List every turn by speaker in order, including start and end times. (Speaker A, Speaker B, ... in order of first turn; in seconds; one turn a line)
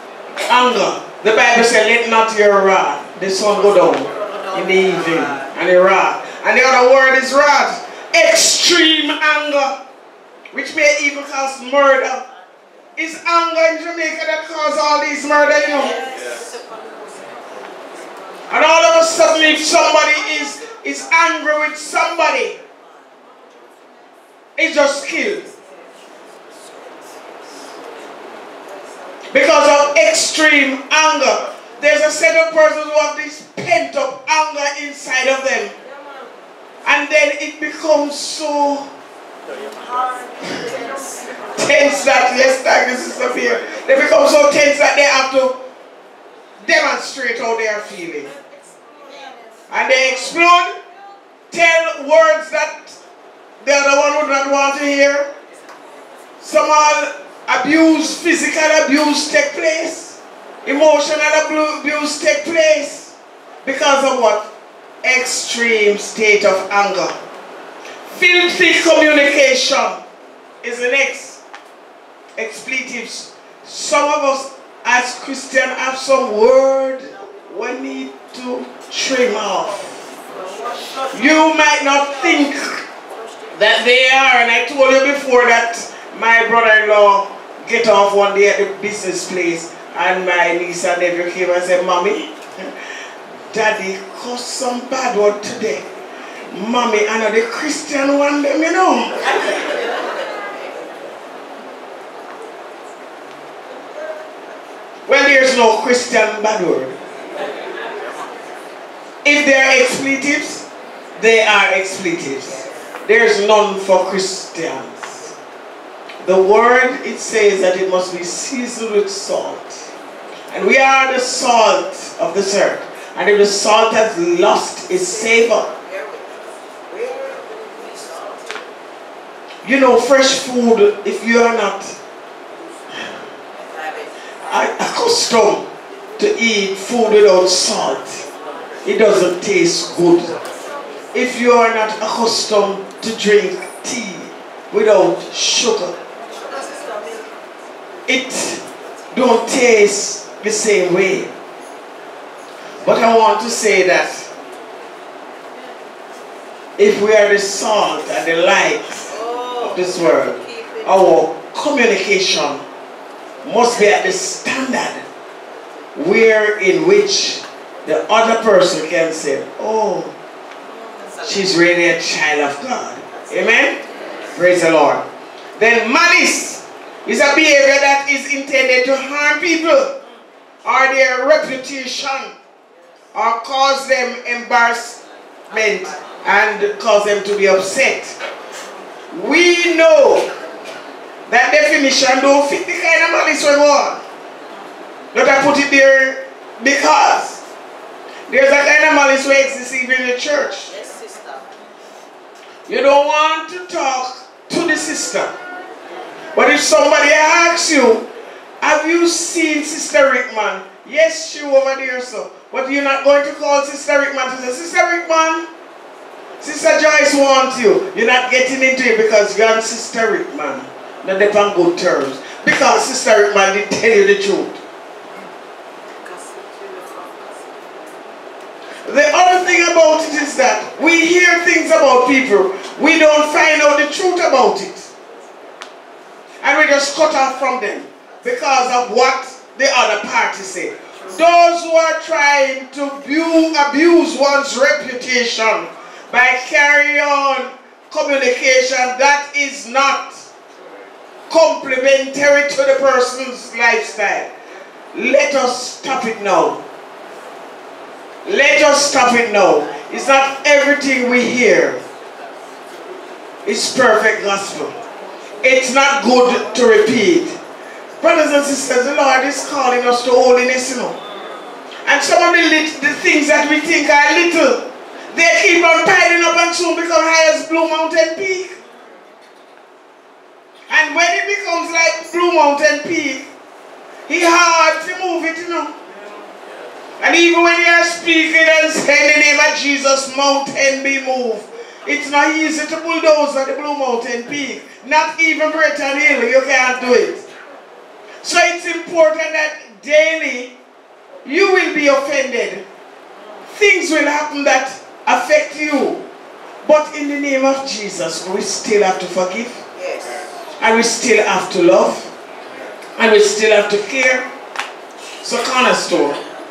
Speaker A: 0.5-9.8
Speaker A: 10.5-12.2
Speaker A: 13.0-16.0
Speaker B: 15.6-17.6
Speaker A: 18.5-22.6
Speaker B: 22.6-22.9
Speaker A: 24.6-25.4
Speaker B: 25.5-27.7
Speaker A: 29.3-35.7
Speaker A: 36.8-38.9
Speaker B: 39.7-41.5
Speaker A: 41.5-45.6
Speaker A: 46.6-48.3
Speaker B: 48.6-49.6
Speaker A: 49.7-50.8
Speaker A: 51.5-53.0
Speaker A: 53.6-55.3
Speaker A: 56.4-64.5
Speaker A: 65.0-67.2
Speaker A: 68.0-70.0
Speaker A: 70.6-71.4
Speaker A: 72.4-80.0
Speaker B: 80.2-81.2
Speaker A: 81.1-82.8
Speaker A: 83.5-92.7
Speaker A: 93.5-95.8
Speaker A: 96.5-99.6
Speaker A: 105.1-107.0
Speaker A: 109.2-110.6
Speaker A: 111.2-115.3
Speaker A: 116.2-119.8
Speaker A: 120.5-125.7
Speaker B: 125.5-128.6
Speaker A: 129.6-132.0
Speaker B: 133.7-134.0
Speaker A: 134.5-138.2
Speaker A: 138.8-140.3
Speaker A: 141.1-145.9
Speaker B: 146.3-147.3
Speaker A: 148.1-151.3
Speaker A: 152.8-154.3
Speaker A: 156.8-162.6
Speaker B: 159.1-160.8
Speaker A: 163.4-165.0
Speaker A: 165.9-170.1
Speaker B: 170.6-171.3
Speaker A: 171.2-175.0
Speaker A: 175.6-179.9
Speaker A: 180.6-182.3
Speaker A: 183.1-188.2
Speaker A: 189.1-190.3
Speaker A: 191.3-194.0
Speaker A: 195.1-197.4
Speaker A: 198.3-200.7
Speaker B: 200.7-201.6
Speaker A: 202.7-205.3
Speaker A: 206.3-208.0
Speaker A: 208.6-215.5
Speaker A: 216.4-224.6
Speaker B: 226.0-228.0
Speaker A: 228.8-234.9
Speaker A: 236.4-250.3
Speaker A: 251.3-254.3
Speaker A: 254.9-256.6
Speaker A: 258.2-261.8
Speaker A: 263.4-264.8
Speaker A: 265.4-267.4
Speaker A: 268.0-271.0
Speaker A: 271.8-278.6
Speaker A: 280.7-283.3
Speaker A: 284.1-285.7
Speaker A: 287.0-297.2
Speaker A: 298.2-300.5
Speaker A: 301.2-302.6
Speaker A: 303.5-306.0
Speaker A: 306.6-309.6
Speaker B: 309.7-310.3
Speaker A: 310.6-312.1
Speaker A: 313.0-314.3
Speaker A: 315.2-316.2